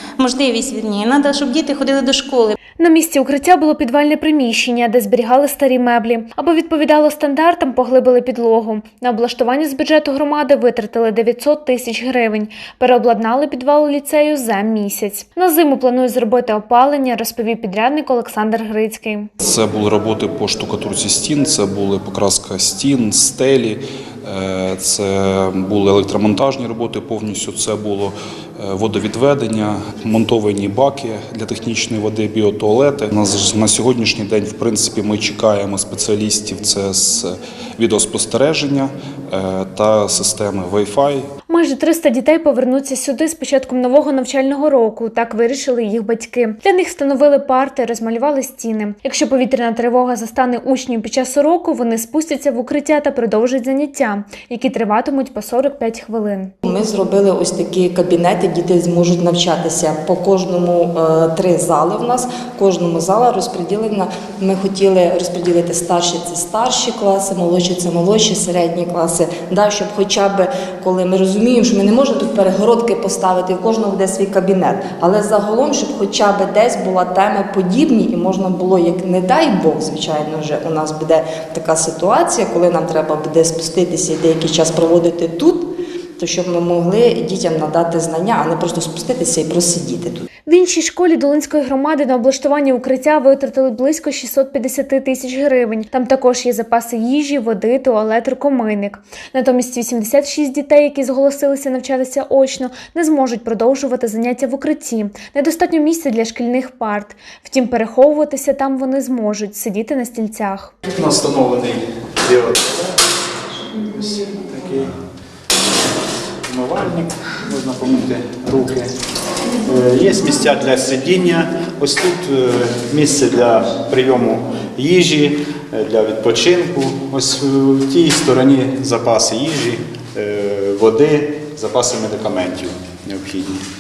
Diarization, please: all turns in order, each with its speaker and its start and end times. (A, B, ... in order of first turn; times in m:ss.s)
0:00.2-0:02.6 A
0:02.8-0:19.3 B
0:19.4-0:41.3 C
0:41.5-0:56.5 B
0:56.6-1:30.2 D
1:30.5-1:50.7 B
1:50.9-1:52.9 E
1:53.9-1:54.9 E
1:56.5-1:58.9 E
1:59.6-2:13.6 E